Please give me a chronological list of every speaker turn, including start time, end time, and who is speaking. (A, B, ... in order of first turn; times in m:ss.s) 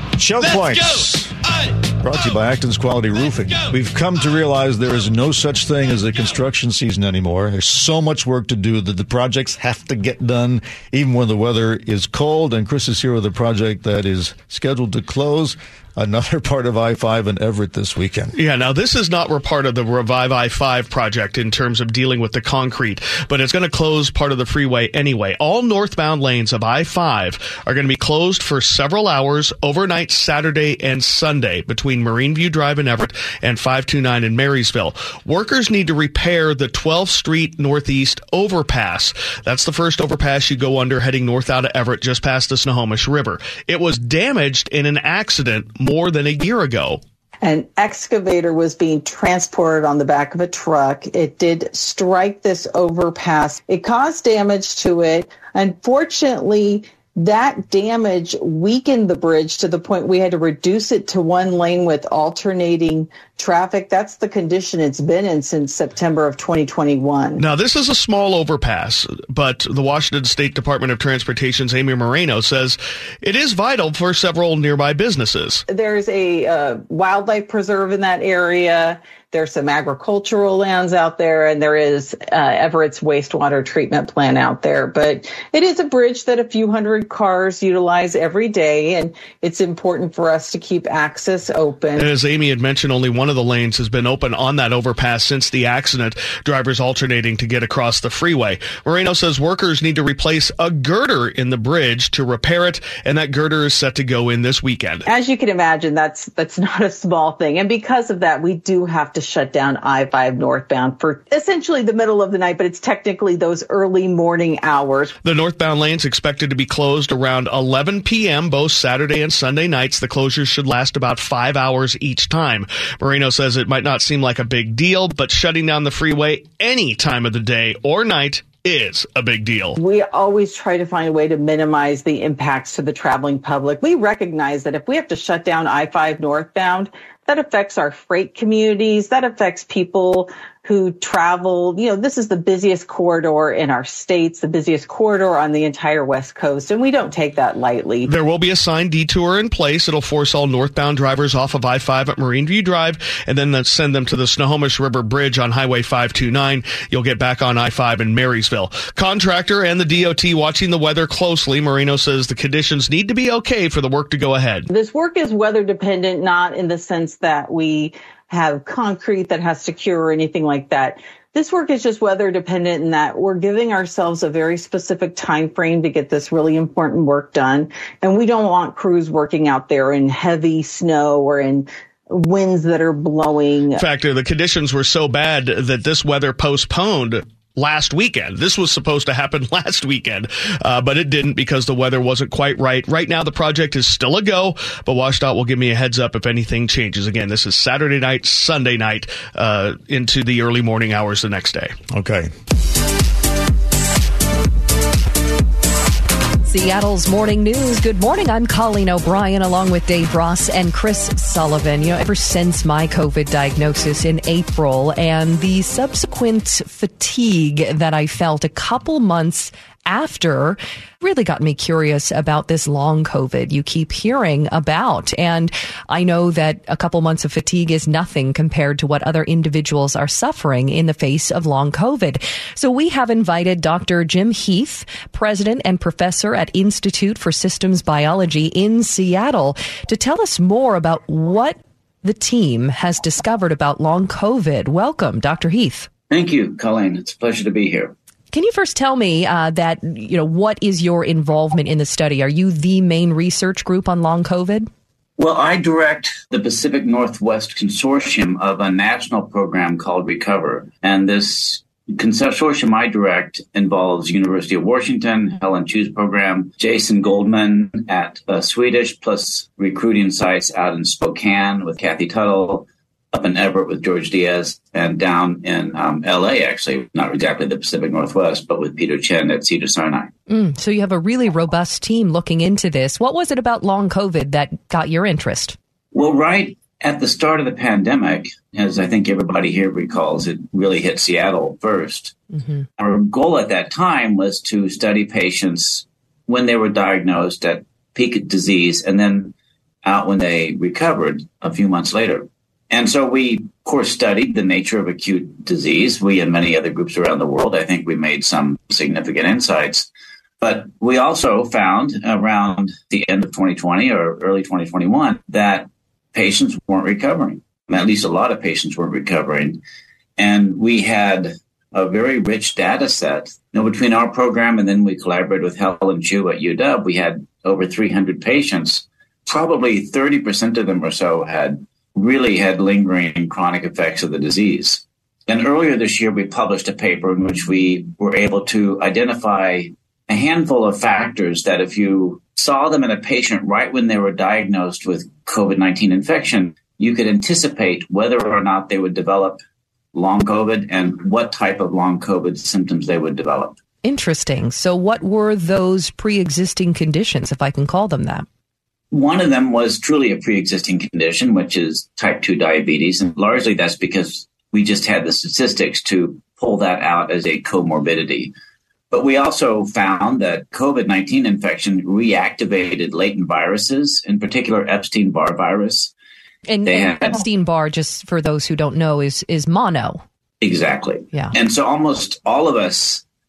0:00.2-0:01.3 A
0:01.9-0:18.4 A
0:18.3-0:47.0 B
0:47.4-1:07.4 C
1:07.4-1:15.6 B
1:15.7-1:32.1 C
1:32.0-1:45.0 B
1:45.1-1:55.1 C
1:55.2-2:09.8 B
2:09.8-2:28.1 C
2:28.1-2:44.7 B
2:44.7-3:03.8 C
3:03.8-3:21.8 B
3:21.9-3:22.3 A
3:26.4-4:05.9 D
4:06.1-4:07.9 E
4:08.3-4:14.7 D
4:15.2-4:40.1 E
4:40.3-4:45.6 D
4:45.9-4:52.2 E
4:52.8-5:09.9 E
5:10.4-5:19.6 E
5:20.2-5:49.4 E
5:49.9-5:53.6 E
5:53.8-5:58.3 D
5:58.9-6:08.3 E
6:08.9-6:15.9 E
6:16.5-6:20.0 D
6:16.6-6:17.2 E
6:20.4-6:23.0 E